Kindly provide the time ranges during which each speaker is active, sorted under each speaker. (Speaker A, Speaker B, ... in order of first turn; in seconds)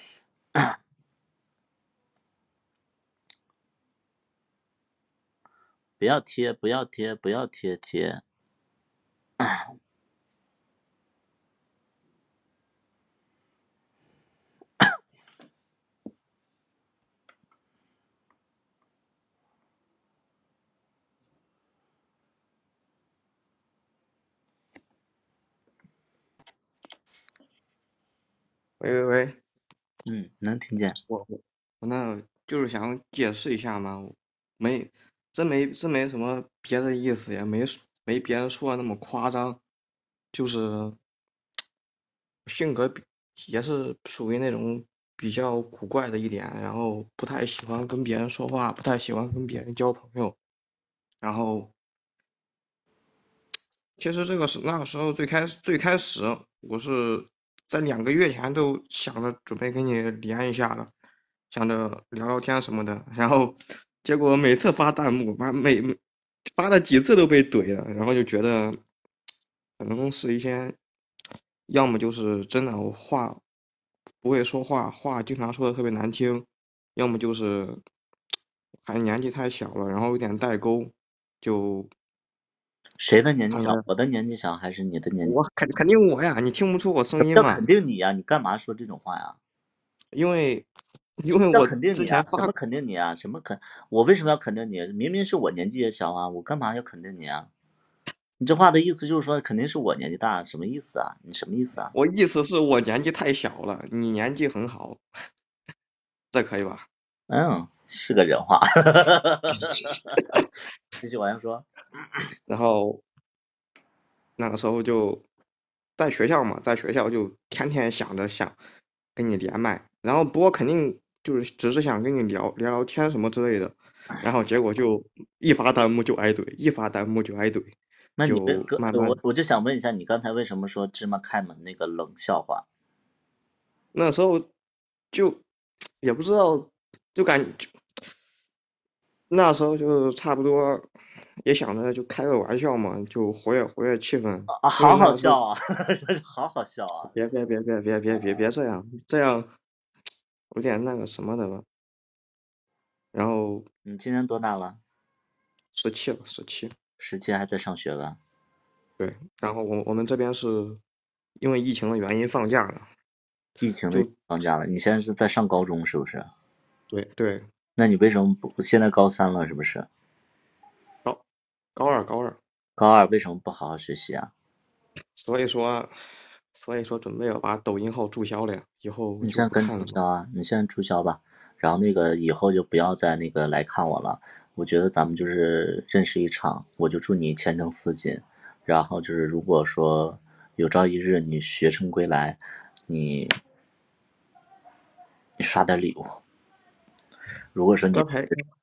Speaker A: 6.0-8.2, 9.4-9.7, 30.1-31.0, 83.0-85.4, 87.2-89.4, 91.5-97.5, 98.4-101.9, 107.3-110.2, 111.0-111.7, 128.2-132.6, 144.5-147.1, 153.8-154.8, 157.0-158.2, 163.6-166.3, 167.8-169.9, 172.8-174.3, 179.2-193.3, 195.4-196.2, 197.5-198.1
Speaker B: 28.8-29.4, 31.1-39.6, 40.3-41.0, 42.5-50.4, 51.2-51.7, 54.0-60.9, 61.5-66.0, 66.5-68.8, 69.8-70.8, 71.7-73.4, 74.2-77.8, 78.8-81.9, 83.5-83.8, 85.2-87.7, 90.1-90.7, 91.2-92.5, 101.9-105.0, 106.3-106.9, 112.5-113.0, 114.4-115.2, 116.0-118.6, 119.2-129.2, 133.9-134.5, 135.1-135.4, 136.0-137.7, 139.3-140.9, 141.4-145.4, 147.1-149.5, 150.5-151.7, 153.1-153.7, 155.7-156.7, 159.0-160.8, 161.4-162.9, 166.9-167.5, 171.7-172.4, 175.2-175.9, 176.5-180.0, 197.9-198.4